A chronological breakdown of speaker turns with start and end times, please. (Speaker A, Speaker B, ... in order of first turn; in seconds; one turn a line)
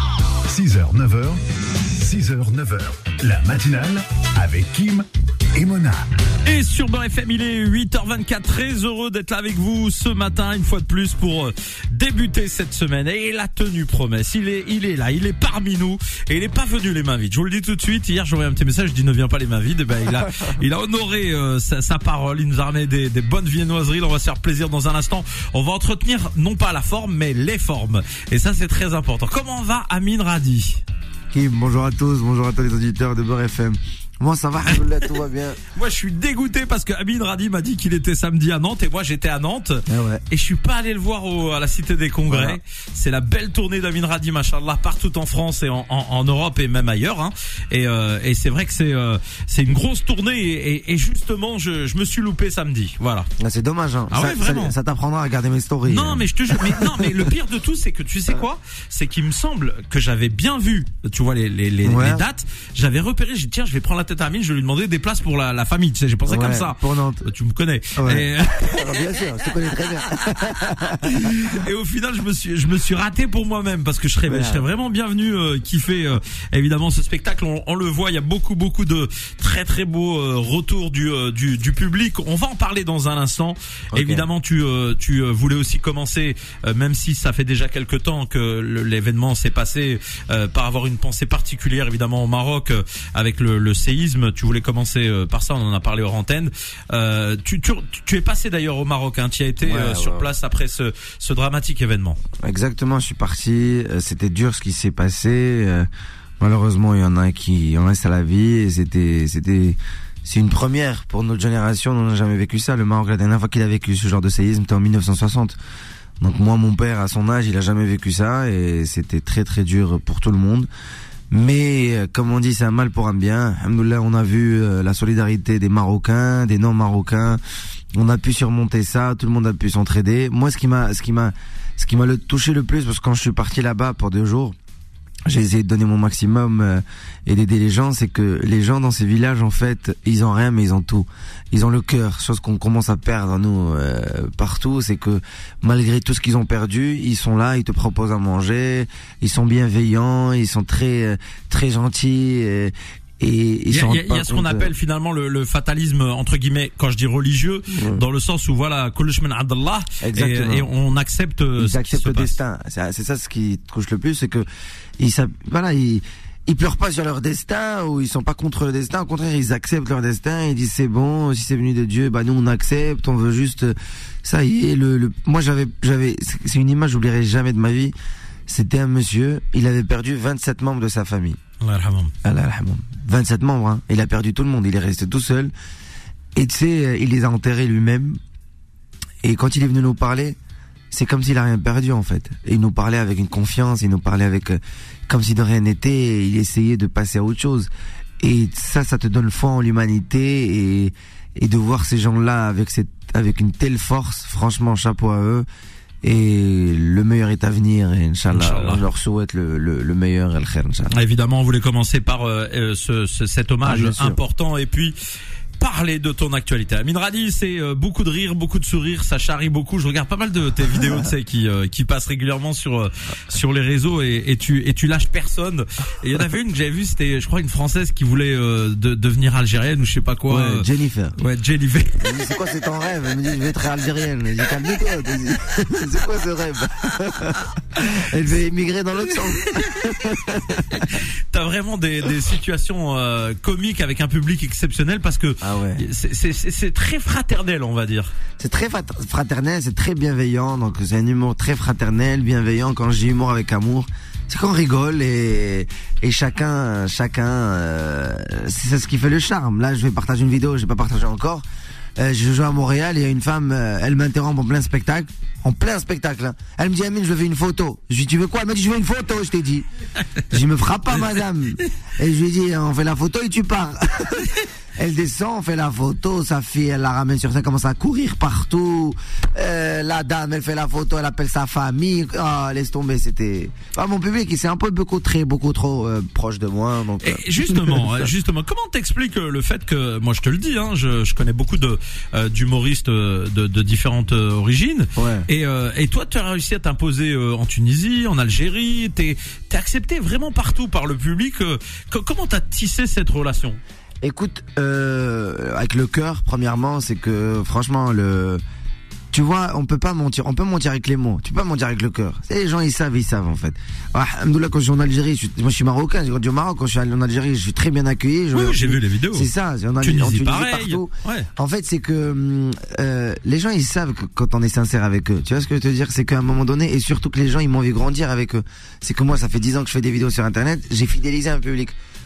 Speaker A: 0.5-6.0
Speaker B: 6.4-30.8
Speaker C: 31.3-35.6
Speaker B: 35.7-53.3
Speaker C: 39.9-40.2
Speaker C: 42.3-42.6
Speaker C: 53.4-57.3
Speaker B: 54.1-54.7
Speaker B: 55.9-69.0
Speaker C: 61.8-62.2
Speaker C: 66.3-67.2
Speaker C: 67.9-71.4
Speaker B: 71.0-102.2
Speaker C: 74.3-74.7
Speaker C: 83.9-84.3
Speaker C: 99.6-100.3
Speaker C: 102.4-105.9
Speaker C: 106.4-115.6
Speaker C: 116.2-120.7
Speaker C: 121.3-127.4
Speaker C: 127.9-134.6
Speaker C: 135.2-154.7
Speaker B: 153.7-162.4
Speaker C: 157.7-158.0
Speaker C: 160.0-160.7
Speaker C: 161.6-164.5
Speaker C: 165.0-177.9
Speaker C: 178.5-181.4
Speaker B: 181.6-182.1
Speaker C: 182.2-185.5
Speaker C: 186.3-188.2
Speaker C: 189.2-190.4
Speaker C: 190.9-197.7
Speaker C: 198.2-205.4
Speaker C: 206.0-210.9
Speaker B: 208.3-208.8
Speaker B: 210.9-214.9
Speaker C: 213.6-214.2
Speaker B: 215.6-232.1
Speaker C: 230.3-231.2
Speaker C: 232.0-240.8
Speaker B: 240.7-248.1
Speaker C: 245.4-245.8
Speaker C: 248.4-261.4
Speaker C: 262.0-269.6
Speaker C: 270.3-288.1
Speaker B: 287.0-303.6
Speaker C: 294.9-295.2
Speaker C: 304.0-308.4
Speaker C: 309.1-331.7
Speaker B: 318.3-319.3
Speaker B: 319.8-321.3